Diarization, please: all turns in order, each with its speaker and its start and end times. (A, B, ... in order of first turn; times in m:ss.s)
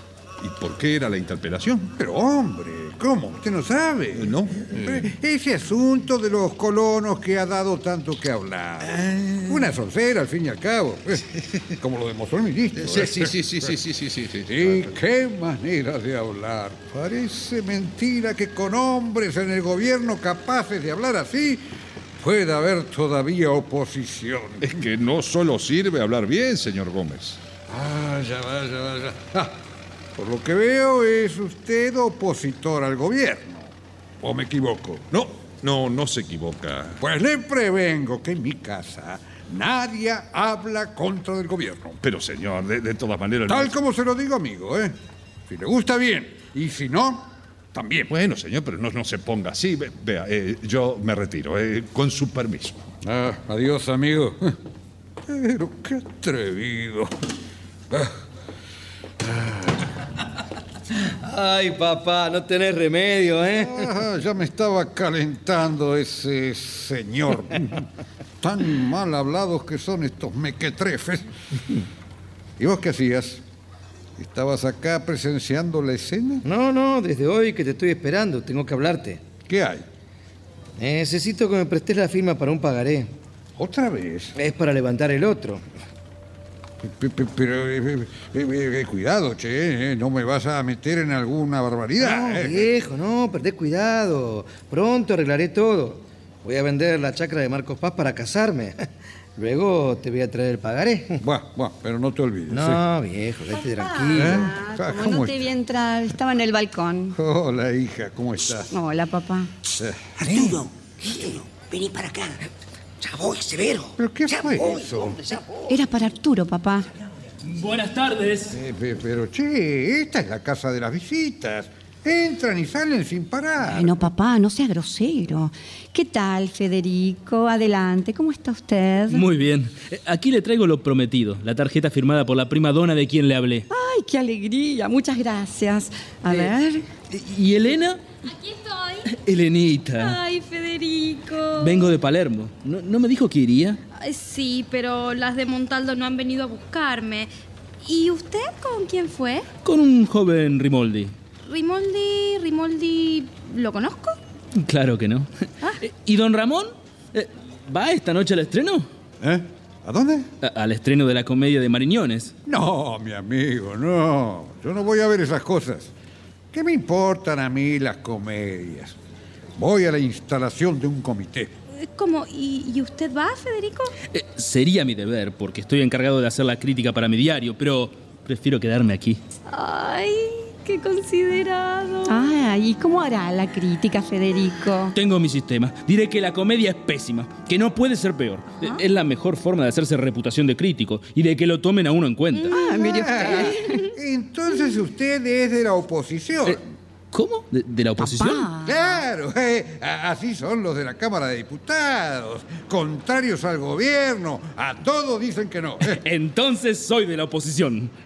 0:00.4-0:02.0 A
0:02.0-0:13.8 B
0:04.1-0:05.2 A
0:09.0-0:09.4 A
0:12.7-0:14.9 A
0:14.5-0:21.7 B
0:22.2-0:24.8 B
0:24.6-0:27.4 A
0:27.7-0:29.6 B
0:30.2-0:35.0 B
0:35.1-0:37.0 A
0:37.0-0:42.0 B
0:42.0-0:43.8 A
0:43.5-0:45.0 B
0:45.5-0:48.1 B
0:48.1-0:52.8 A
0:53.0-0:54.5 B
0:55.3-0:57.1 B
0:59.2-0:59.7 B
1:01.2-1:03.9 C
1:03.6-1:07.8 B
1:08.4-1:11.3 B
1:12.6-1:13.4 B
1:14.2-1:16.4 B
1:16.4-1:19.2 C
1:19.5-1:19.8 B
1:20.8-1:23.1 C
1:23.6-1:24.3 B
1:24.4-1:25.6 C
1:26.8-1:32.7 B
1:32.0-1:38.8 C
1:39.4-1:41.2 C
1:41.2-1:42.8 B
1:42.5-1:44.5 C
1:43.6-1:47.2 D
1:44.1-1:45.5 B
1:47.2-1:48.7 B
1:48.7-1:49.5 D
1:49.8-1:50.6 B
1:50.2-1:52.5 E
1:53.0-1:55.4 E
1:54.0-1:55.2 B
1:55.7-1:56.9 D
1:57.5-1:58.5 F
1:58.5-2:03.9 B
2:03.6-2:09.3 D
2:09.1-2:13.7 F
2:13.7-2:16.9 D
2:17.1-2:18.0 F
2:18.2-2:19.2 G
2:19.1-2:20.2 F
2:20.0-2:21.9 G
2:21.6-2:23.8 F
2:24.0-2:27.3 G
2:27.8-2:29.5 G
2:29.6-2:31.1 F
2:31.4-2:34.2 G
2:34.6-2:38.9 F
2:39.2-2:40.3 B
2:40.4-2:42.3 F
2:42.5-2:45.9 B
2:46.5-2:49.0 B
2:49.6-2:51.5 B
2:51.7-2:53.9 G
2:54.1-2:59.2 F
2:59.5-3:02.2 G
3:02.1-3:05.0 D
3:04.9-3:12.5 F
3:12.3-3:12.6 G
3:12.5-3:13.9 D
3:12.8-3:16.6 B
3:17.1-3:18.5 F
3:18.0-3:18.8 D
3:18.6-3:26.0 B
3:25.9-3:27.9 F